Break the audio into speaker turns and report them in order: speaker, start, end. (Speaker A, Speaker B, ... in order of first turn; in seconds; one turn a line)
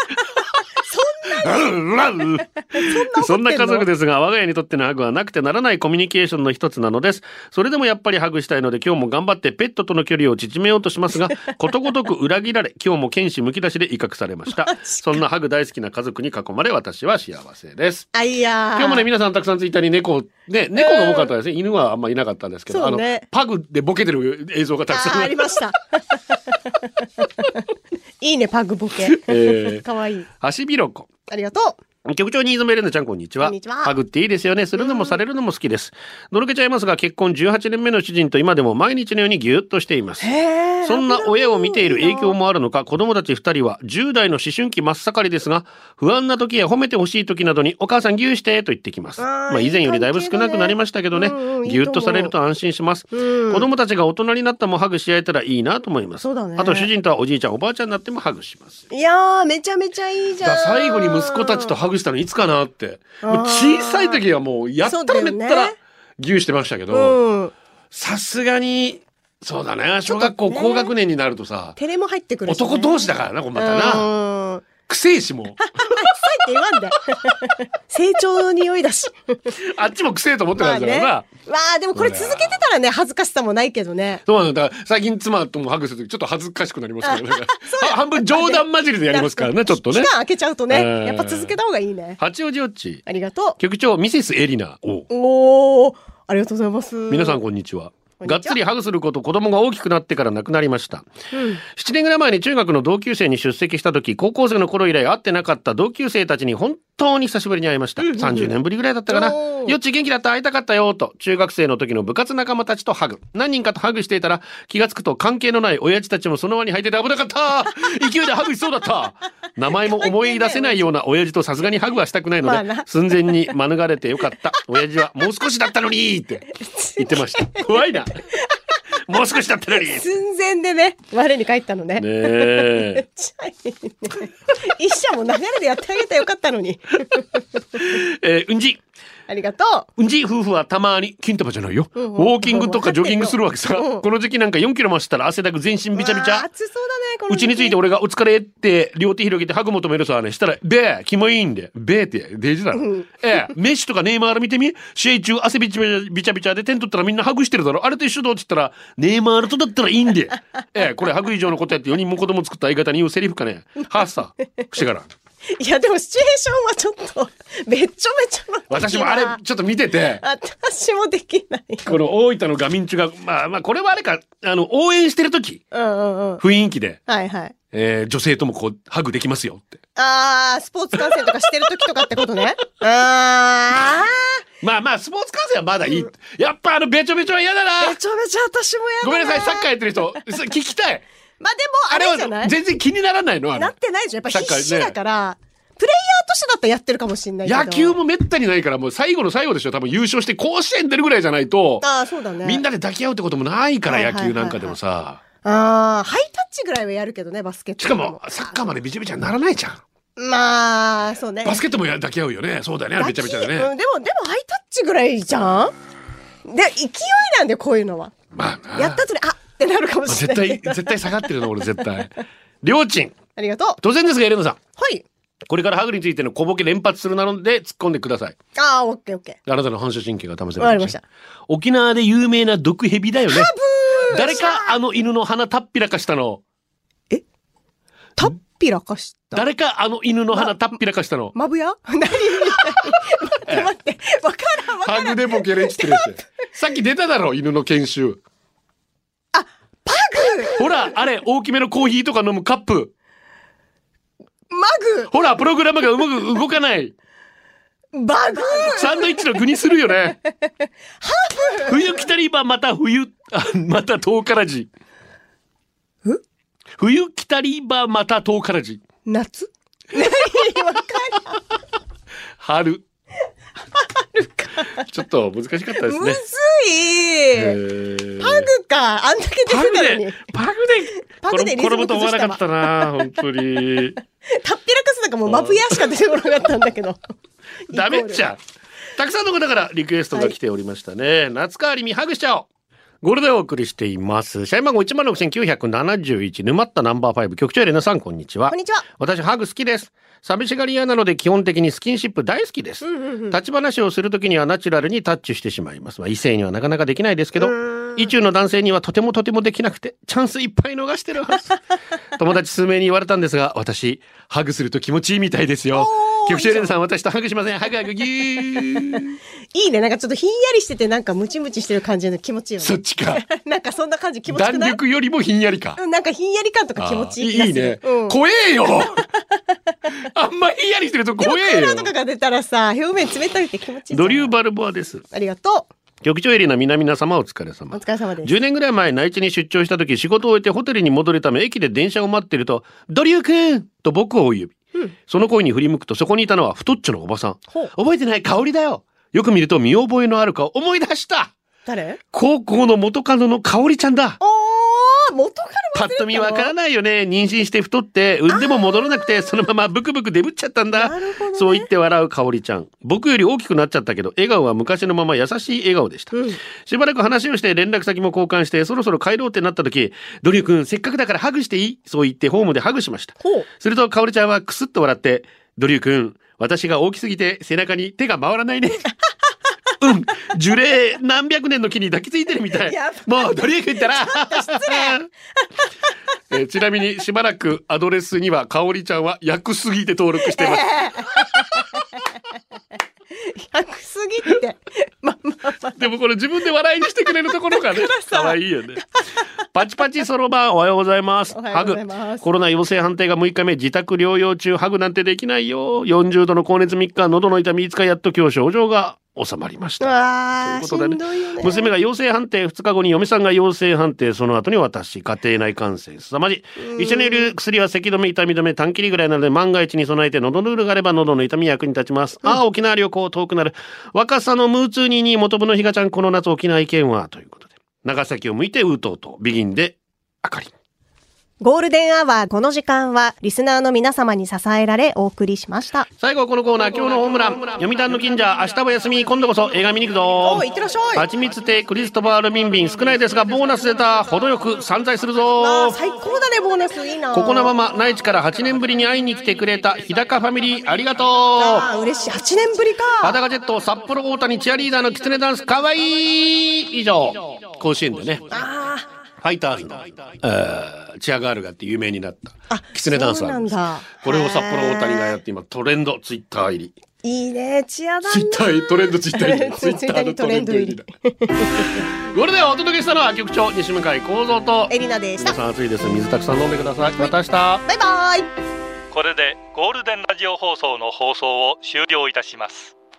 Speaker A: 0.9-1.6
Speaker B: 1.3-18.1
Speaker A: 2.7-3.9
Speaker A: 14.5-15.2
Speaker A: 18.1-19.1
Speaker B: 18.8-25.7
Speaker A: 20.7-21.3
Speaker A: 22.7-23.2
Speaker A: 24.9-27.6
Speaker A: 28.2-30.3
Speaker B: 29.0-29.8
Speaker B: 30.4-31.1
Speaker A: 31.3-31.8
Speaker B: 32.0-40.3
Speaker A: 33.4-33.9
Speaker A: 34.8-35.1
Speaker A: 40.2-42.4
Speaker B: 40.8-58.9
Speaker A: 49.2-52.3
Speaker A: 53.1-53.6
Speaker A: 56.2-56.9
Speaker A: 58.9-61.7
Speaker B: 60.4-67.2
Speaker A: 63.2-64.2
Speaker A: 64.8-65.8
Speaker A: 66.9-67.5
Speaker B: 67.9-71.8
Speaker A: 70.1-70.9
Speaker A: 71.8-74.6
Speaker B: 72.5-74.1
Speaker B: 74.9-76.2
Speaker A: 75.6-79.5
Speaker B: 79.5-81.3
Speaker A: 80.6-84.2
Speaker B: 81.9-82.6
Speaker B: 84.2-90.1
Speaker A: 87.0-92.2
Speaker B: 90.7-91.6
Speaker B: 92.2-93.0
Speaker A: 93.0-93.6
Speaker B: 93.6-95.1
Speaker A: 95.1-97.4
Speaker B: 97.1-101.1
Speaker A: 98.2-98.6
Speaker A: 101.3-101.6
Speaker B: 101.6-126.5
Speaker A: 108.0-108.5
Speaker A: 109.1-109.7
Speaker A: 119.9-120.9
Speaker A: 122.4-122.9
Speaker A: 126.5-127.7
Speaker B: 127.0-128.2
Speaker B: 129.1-130.0
Speaker A: 129.7-137.3
Speaker B: 132.0-133.0
Speaker B: 137.7-138.8
Speaker A: 139.3-139.9
Speaker B: 140.0-146.5
Speaker A: 141.9-144.0
Speaker A: 145.9-147.8
Speaker B: 147.3-165.1
Speaker A: 152.8-153.1
Speaker A: 165.5-169.4
Speaker B: 168.7-170.2
Speaker A: 170.2-172.0
Speaker B: 171.8-175.7
Speaker A: 175.7-176.4
Speaker B: 176.4-177.0
Speaker A: 177.1-177.5
Speaker B: 177.7-179.8
Speaker A: 179.9-184.4
Speaker B: 181.0-181.7
Speaker B: 184.6-188.0
Speaker A: 187.8-189.7
Speaker B: 189.0-191.0
Speaker A: 191.4-192.5
Speaker B: 191.9-193.7
Speaker A: 193.6-197.9
Speaker B: 194.3-194.9
Speaker B: 197.4-201.8
Speaker A: 201.8-202.6
Speaker B: 202.4-205.2
Speaker A: 203.9-204.7
Speaker A: 205.4-208.3
Speaker B: 207.8-209.8
Speaker A: 210.2-211.6
Speaker B: 211.4-213.7
Speaker A: 213.0-215.7
Speaker A: 216.4-218.1
Speaker B: 218.3-219.0
Speaker A: 218.8-221.2
Speaker B: 220.1-223.2
Speaker A: 223.3-223.8
Speaker B: 223.8-224.6
Speaker A: 224.8-225.0
Speaker B: 225.5-228.4
Speaker A: 228.6-229.4
Speaker B: 229.4-230.9
Speaker A: 230.6-231.0
Speaker B: 231.5-233.5
Speaker A: 233.3-234.8
Speaker B: 234.0-236.4
Speaker A: 238.2-239.4
Speaker B: 239.3-241.3
Speaker A: 241.3-246.2
Speaker B: 242.3-243.7
Speaker B: 244.8-248.2
Speaker A: 249.3-250.9
Speaker B: 250.4-252.9
Speaker A: 254.5-255.1
Speaker B: 255.1-256.9
Speaker A: 257.9-259.2
Speaker B: 258.4-260.2
Speaker A: 260.4-262.0
Speaker B: 261.5-264.7
Speaker B: 266.8-268.8
Speaker A: 269.1-271.4
Speaker B: 272.4-272.8
Speaker A: 273.7-274.9
Speaker B: 274.8-276.2
Speaker A: 275.8-277.6
Speaker B: 277.3-278.5
Speaker A: 278.2-280.2
Speaker B: 279.5-284.0
Speaker A: 281.2-283.1
Speaker A: 284.3-287.0
Speaker B: 285.3-285.8
Speaker A: 287.7-288.2
Speaker B: 287.7-288.4
Speaker B: 288.9-292.5
Speaker B: 293.0-311.5
Speaker A: 298.5-298.9
Speaker A: 302.8-303.4
Speaker A: 307.4-308.0
Speaker B: 312.1-319.2
Speaker A: 315.7-316.7
Speaker A: 319.5-324.8
Speaker B: 322.6-323.2
Speaker B: 324.3-325.8
Speaker A: 325.8-328.2
Speaker B: 326.8-329.1
Speaker B: 329.9-331.9
Speaker A: 331.2-334.3
Speaker B: 333.9-335.0
Speaker A: 335.1-335.7
Speaker B: 336.0-344.5
Speaker A: 337.7-338.3
Speaker B: 345.1-351.3
Speaker A: 351.6-352.0
Speaker B: 352.1-354.2
Speaker A: 354.2-356.5
Speaker B: 355.7-378.9
Speaker A: 358.3-359.2
Speaker A: 360.7-361.7
Speaker A: 366.1-366.4
Speaker A: 373.2-373.5
Speaker B: 379.8-385.1
Speaker A: 382.6-385.0
Speaker B: 386.3-391.7
Speaker A: 390.2-391.8
Speaker A: 393.1-395.8
Speaker B: 395.7-398.8
Speaker A: 397.5-398.4
Speaker B: 399.5-430.5
Speaker A: 401.3-402.2
Speaker A: 409.8-411.7
Speaker A: 416.6-417.3
Speaker A: 431.4-435.9
Speaker B: 436.0-445.8
Speaker A: 440.2-441.1
Speaker A: 445.4-447.5
Speaker B: 447.1-451.7
Speaker A: 451.4-453.2
Speaker B: 453.0-458.4
Speaker A: 458.3-458.9
Speaker B: 459.2-466.7
Speaker A: 462.5-465.2
Speaker A: 467.0-471.9
Speaker B: 468.0-470.9
Speaker B: 471.5-477.6
Speaker A: 474.7-475.4
Speaker A: 477.6-478.3
Speaker C: 478.9-482.7